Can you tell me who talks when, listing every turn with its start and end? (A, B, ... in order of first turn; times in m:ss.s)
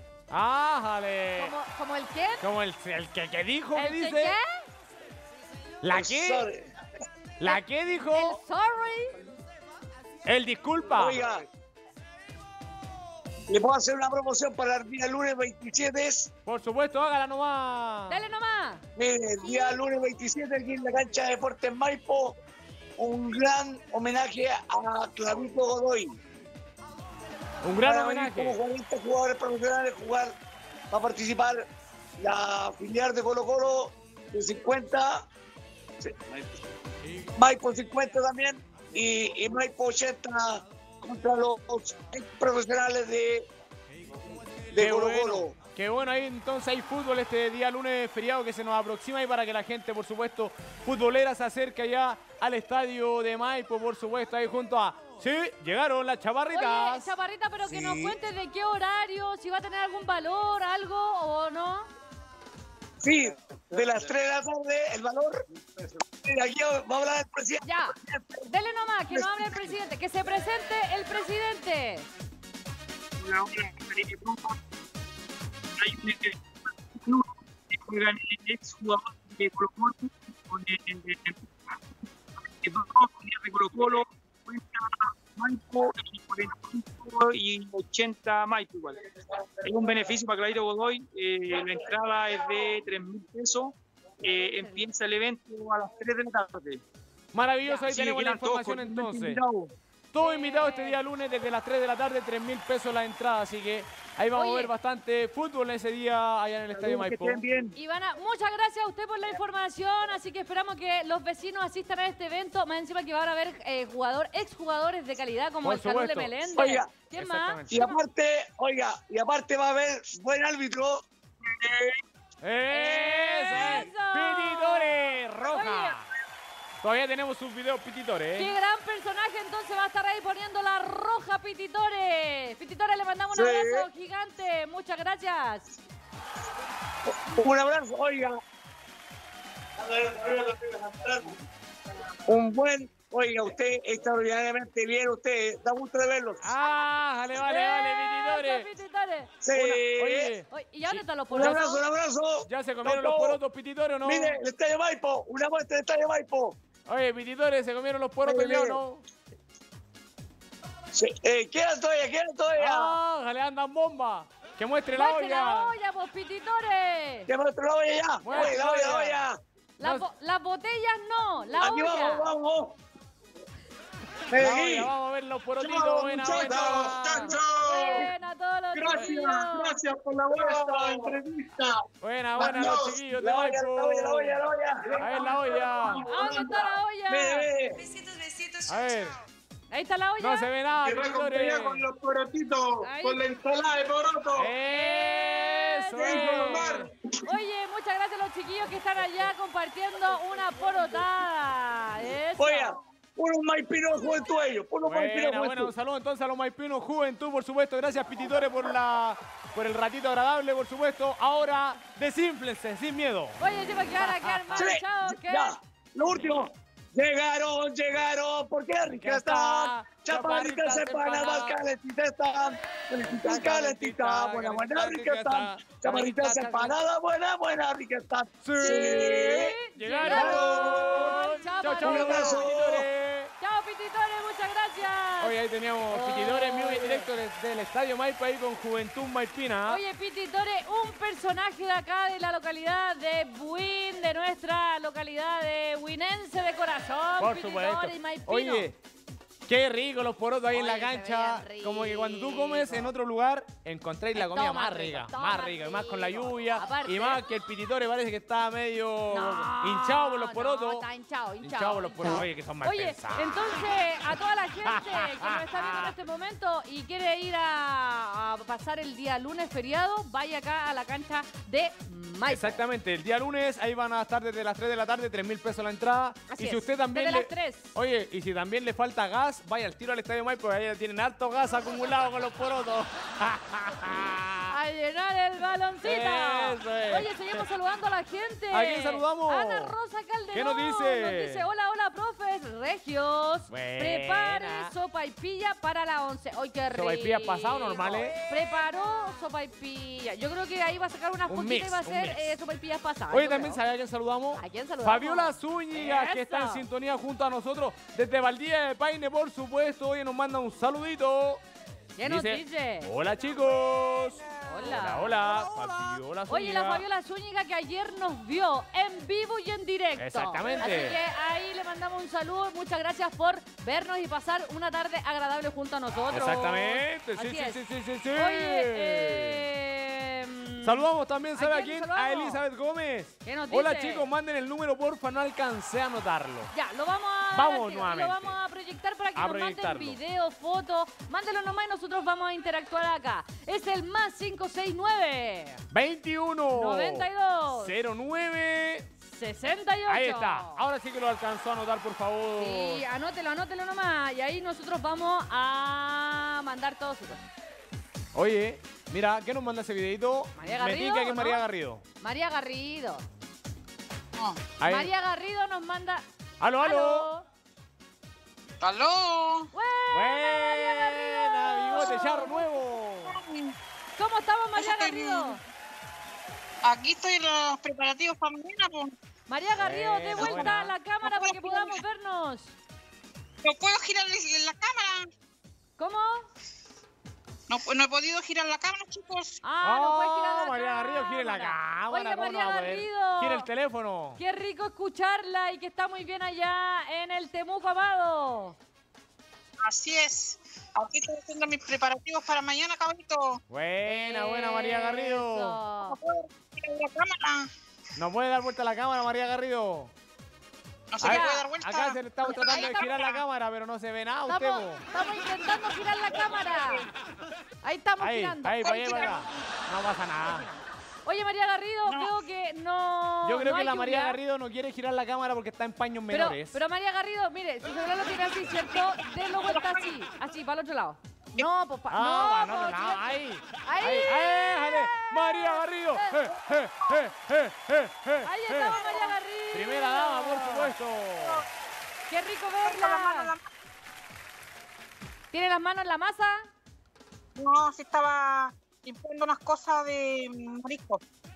0:00.3-0:01.5 A
0:01.4-0:02.4 B
0:02.4-0:04.4 A
0:03.7-0:04.7 B
0:05.8-0:06.5 A
0:05.9-0:06.7 C
0:07.4-0:08.4 A
0:07.4-0:09.1 B
0:10.2-0:11.2 A
0:10.9-0:11.4 C
0:13.5-0:16.3 C
0:16.4-0:18.3 A
0:18.1-0:18.8 B
0:19.0-0:22.4 C
0:19.4-0:19.8 B
0:23.0-0:26.1 C
0:27.6-0:28.6 A
0:27.8-0:30.3 C
0:30.9-0:31.6 C
0:32.2-0:35.2 C
0:37.4-0:43.5 C
0:44.7-0:45.5 C
0:44.7-0:57.1 A
0:56.5-1:01.9 B
1:03.0-1:05.4 C
1:06.2-1:08.4 C
1:07.6-1:12.1 B
1:09.1-1:09.7 C
1:13.2-1:14.6 D
1:15.8-1:21.4 D
1:22.6-1:29.0 D
1:29.6-1:36.8 D
1:34.5-1:34.9 B
1:37.3-1:39.4 A
1:37.6-1:37.9 B
1:37.9-1:39.7 D
1:40.1-1:47.4 A
1:40.2-1:41.0 B
1:44.3-1:44.7 B
1:46.8-1:47.7 D
1:47.7-1:58.0 B
1:55.6-1:56.5 A
1:56.5-1:56.9 C
1:57.1-1:57.9 A
1:57.7-2:01.9 C
2:02.4-2:06.1 A
2:02.7-2:06.0 B
2:06.8-2:08.5 A
2:08.4-2:15.7 B
2:13.3-2:13.9 C
2:17.0-2:18.4 C
2:19.8-2:21.3 C
2:22.3-2:26.4 C
2:26.4-2:28.7 A
2:27.4-2:29.3 B
2:29.4-2:30.3 C
2:29.5-2:31.7 A
2:30.5-2:31.8 B
2:31.3-2:33.4 C
2:32.4-2:34.4 A
2:34.0-2:36.6 C
2:36.9-2:39.0 A
2:38.2-2:38.8 C
2:40.9-2:43.0 C
2:42.6-2:45.8 A
2:45.0-2:47.3 B
2:47.3-2:49.4 C
2:48.2-2:49.2 A
2:48.3-2:48.6 B
2:49.8-2:52.3 B
2:49.8-2:50.0 A
2:51.6-2:52.8 C
2:54.3-2:54.9 C
2:54.4-2:57.4 A
2:55.6-2:57.3 C
2:56.4-2:58.1 D
2:56.9-2:59.8 B
2:58.7-3:01.2 D
3:00.3-3:01.8 C
3:02.0-3:04.4 A
3:02.4-3:07.9 C
3:02.4-3:02.8 D
3:05.0-3:06.0 A
3:05.0-3:05.7 D
3:05.9-3:07.5 B
3:08.6-3:09.2 A
3:09.7-3:10.5 B
3:10.2-3:11.8 A
3:10.8-3:14.5 D
3:12.8-3:13.3 B
3:14.3-3:16.9 A
3:14.6-3:22.7 B
3:16.0-3:16.9 D
3:22.4-3:25.7 C
3:24.8-3:33.4 A
3:33.4-3:35.5 B
3:34.0-3:34.7 A
3:34.5-3:51.1 C
3:36.1-3:36.4 A
3:38.9-3:41.6 A
3:43.0-3:46.8 A
3:48.4-3:53.3 A
3:48.6-3:52.5 B
3:51.8-3:52.8 C
3:53.4-3:55.3 B
3:55.2-3:59.8 A
3:55.9-3:57.1 B
3:59.6-4:08.7 B
4:07.2-4:08.8 A
4:09.5-4:20.8 A
4:10.5-4:12.9 B
4:14.1-4:17.2 B
4:19.1-4:32.6 B
4:21.4-4:23.5 A
4:24.6-4:25.9 A
4:32.3-4:44.6 A
4:36.3-4:37.7 B
4:44.5-5:03.6 B
4:45.8-4:47.4 A
4:48.5-4:49.8 A
4:50.3-4:51.5 A
4:53.5-4:54.7 A
4:56.7-4:58.2 A
5:01.3-5:02.3 A
5:03.1-5:11.4 A
5:04.3-5:06.6 B
5:12.0-5:12.9 B
5:12.0-5:16.8 A
5:14.4-5:15.4 B
5:16.3-5:27.6 B
5:20.0-5:21.0 A
5:26.1-5:29.4 A
5:28.1-5:32.4 B
5:30.6-5:36.5 A
5:33.2-5:34.1 B
5:36.5-5:45.6 B
5:37.3-5:38.4 A
5:39.1-5:40.0 A
5:45.7-5:48.9 A
5:46.5-5:47.7 B
5:49.1-5:50.6 B
5:49.9-5:52.8 A
5:52.4-5:57.2 B
5:58.1-6:01.8 A
6:00.4-6:01.4 B
6:02.0-6:03.0 B
6:04.2-6:04.5 E
6:04.6-6:04.9 A
6:04.6-6:06.0 B
6:06.4-6:07.1 A
6:06.6-6:07.3 B
6:08.6-6:09.5 E
6:09.5-6:12.4 B
6:09.9-6:13.2 A
6:11.9-6:12.4 E
6:13.0-6:13.5 E
6:14.0-6:15.4 B
6:14.6-6:15.4 E
6:16.6-6:18.9 E
6:19.3-6:22.5 B
6:19.6-6:20.7 A
6:20.2-6:21.8 E
6:23.4-6:25.1 E
6:25.8-6:26.3 B
6:27.5-6:29.4 E
6:29.4-6:33.5 B
6:29.6-6:34.2 A
6:34.2-6:38.6 B
6:39.6-6:43.4 E
6:43.5-6:45.6 A
6:43.8-6:46.0 B
6:45.8-6:47.5 E
6:48.0-6:49.9 A
6:50.9-6:53.2 E
6:51.0-6:51.5 B
6:51.0-6:54.8 A
6:52.2-6:52.8 B
6:54.3-6:56.9 B
6:56.1-6:56.9 E
6:57.6-6:59.2 B
6:58.0-7:00.4 A
6:58.7-6:59.2 E
7:00.2-7:04.2 B
7:01.9-7:02.1 E
7:03.2-7:06.6 A
7:06.1-7:13.1 B
7:09.4-7:09.9 E
7:11.9-7:18.8 A
7:13.6-7:16.3 B
7:18.2-7:20.7 B
7:18.6-7:19.2 E
7:19.5-7:21.4 A
7:22.1-7:23.3 B
7:22.6-7:23.5 E
7:25.3-7:26.5 B
7:27.4-7:31.0 E